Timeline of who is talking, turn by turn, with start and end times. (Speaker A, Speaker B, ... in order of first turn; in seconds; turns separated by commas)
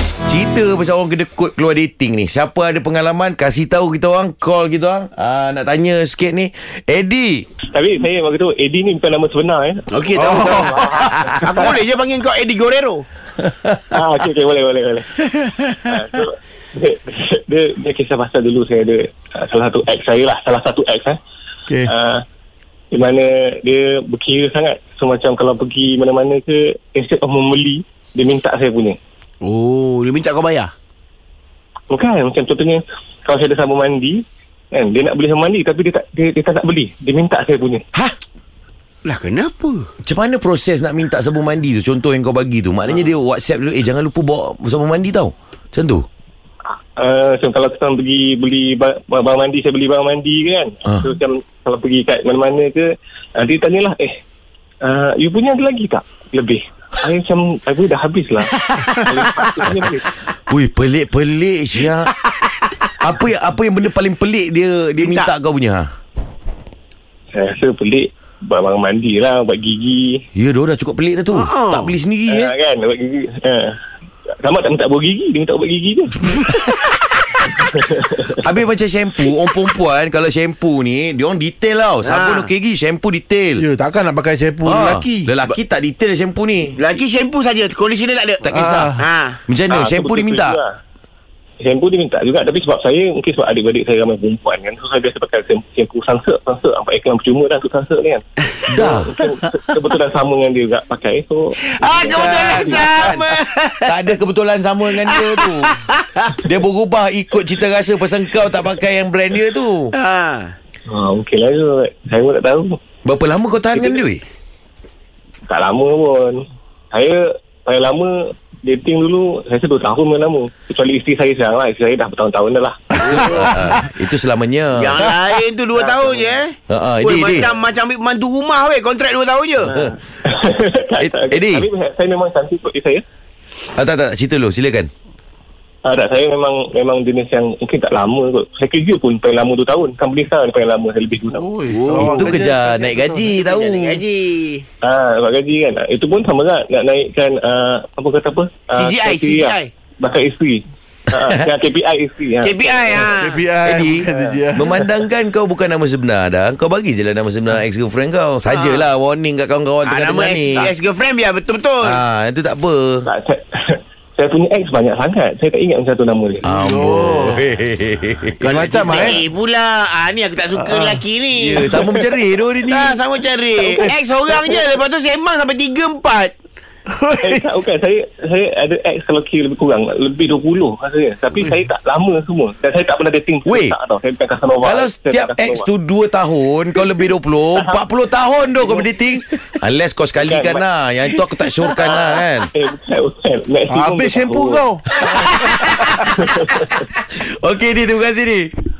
Speaker A: 0.3-7.5, Speaker B: 7.7-11.7, Speaker C: 9.9-13.1, Speaker D: 10.3-11.2, Speaker B: 13.9-21.2, Speaker B: 21.8-22.2, Speaker B: 22.9-29.0, Speaker C: 29.4-30.7, Speaker B: 31.9-37.8, Speaker C: 39.0-39.9, Speaker A: 40.0-46.0, Speaker B: 46.6-54.2, Speaker B: 54.8-60.1, Speaker C: 58.7-58.9, Speaker A: 60.5-62.1, Speaker A: 63.0-65.9, Speaker C: 65.0-65.3, Speaker B: 67.3-70.2, Speaker A: 70.3-72.5, Speaker C: 71.3-71.9, Speaker B: 72.3-73.8, Speaker B: 74.4-76.5, Speaker B: 77.5-78.3, Speaker A: 78.4-83.6, Speaker C: 82.0-82.5, Speaker D: 83.6-85.3, Speaker A: 84.6-86.8, Speaker C: 86.8-88.4, Speaker A: 88.4-90.6, Speaker D: 88.5-89.0, Speaker C: 89.0-89.4, Speaker B: 89.7-90.8, Speaker B: 91.6-103.1, Speaker A: 98.7-99.2, Speaker C: 101.7-104.0, Speaker A: 102.1-103.2, Speaker A: 103.8-105.8, Speaker C: 105.0-106.4, Speaker A: 106.4-109.9, Speaker C: 109.9-110.5, Speaker B: 110.9-112.8, Speaker A: 113.0-114.2, Speaker B: 113.7-114.0, Speaker B: 115.5-123.5, Speaker A: 123.0-125.1, Speaker C: 123.0-123.5, Speaker C: 124.8-129.9, Speaker B: 125.7-126.4, Speaker A: 126.7-127.5, Speaker A: 129.6-129.9, Speaker B: 130.2-133.0, Speaker A: 131.0-131.7, Speaker A: 133.8-134.9, Speaker B: 135.8-141.5, Speaker D: 141.3-142.6, Speaker C: 141.7-144.7, Speaker A: 141.9-144.0, Speaker B: 144.8-153.1, Speaker C: 148.7-149.7, Speaker C: 152.4-153.4, Speaker D: 153.0-155.0, Speaker A: 153.6-160.7, Speaker B: 153.9-154.5, Speaker C: 158.4-158.9, Speaker C: 159.8-162.0, Speaker A: 161.8-163.1, Speaker B: 163.1-166.4, Speaker A: 166.4-169.2, Speaker D: 166.4-167.4, Speaker C: 168.4-171.8, Speaker D: 168.4-169.2, Speaker A: 171.3-173.0, Speaker C: 172.7-176.3, Speaker D: 176.9-177.4, Speaker B: 177.1-185.7, Speaker A: 183.4-183.7, Speaker A: 184.6-192.5, Speaker B: 190.2-190.6, Speaker B: 191.7-194.6, Speaker D: 193.7-195.1, Speaker A: 195.2-195.8, Speaker B: 196.1-196.8, Speaker A: 197.0-198.5